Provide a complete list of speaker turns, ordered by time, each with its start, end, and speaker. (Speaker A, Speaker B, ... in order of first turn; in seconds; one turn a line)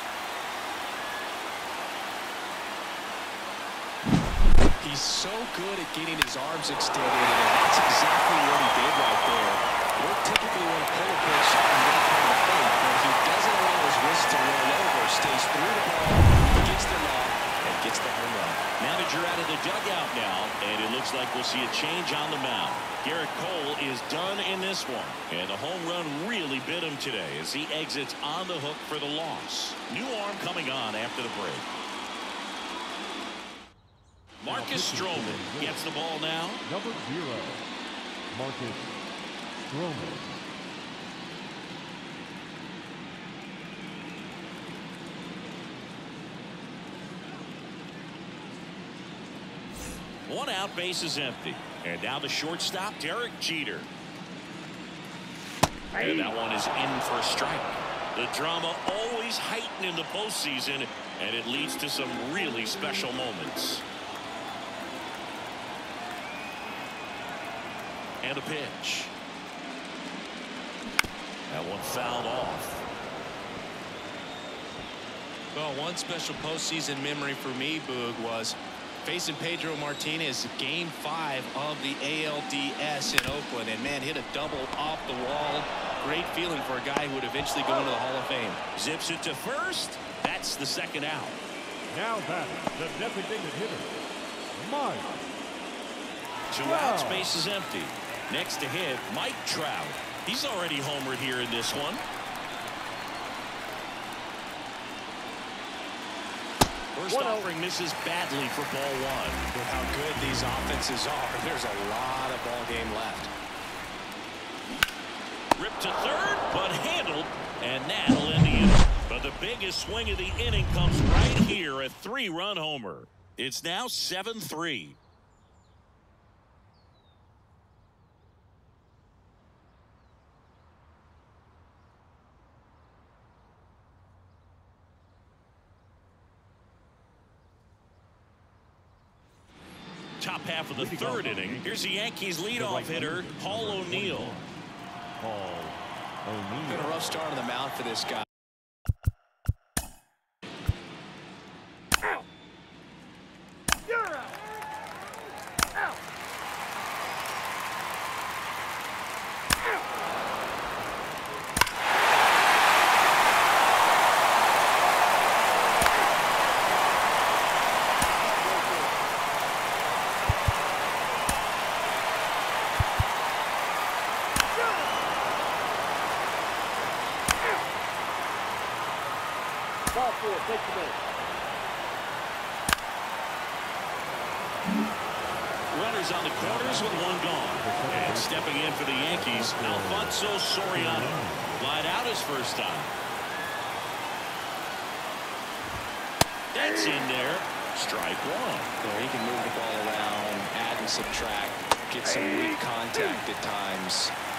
Speaker A: 4.8-18.6
Speaker B: 18.8-31.7
Speaker B: 34.4-36.7
Speaker C: 34.5-35.9
Speaker C: 36.6-37.7
Speaker C: 38.3-39.0
Speaker C: 39.6-40.5
Speaker B: 50.3-53.9
Speaker D: 55.9-56.4
Speaker B: 56.0-63.9
Speaker B: 68.2-69.1
Speaker B: 71.5-72.8
Speaker A: 75.5-88.6
Speaker B: 88.8-91.4
Speaker C: 91.9-95.3
Speaker B: 96.5-102.0
Speaker C: 96.6-97.4
Speaker B: 107.0-109.4
Speaker D: 107.1-107.5
Speaker A: 109.5-113.3
Speaker B: 115.6-125.0
Speaker B: 140.2-144.4
Speaker C: 140.8-141.8
Speaker C: 142.5-144.5
Speaker C: 145.2-147.2
Speaker A: 146.6-148.2
Speaker D: 179.9-181.0
Speaker B: 185.7-192.9
Speaker C: 186.4-191.7
Speaker B: 196.5-198.7
Speaker A: 198.8-204.1
Speaker D: 202.5-203.2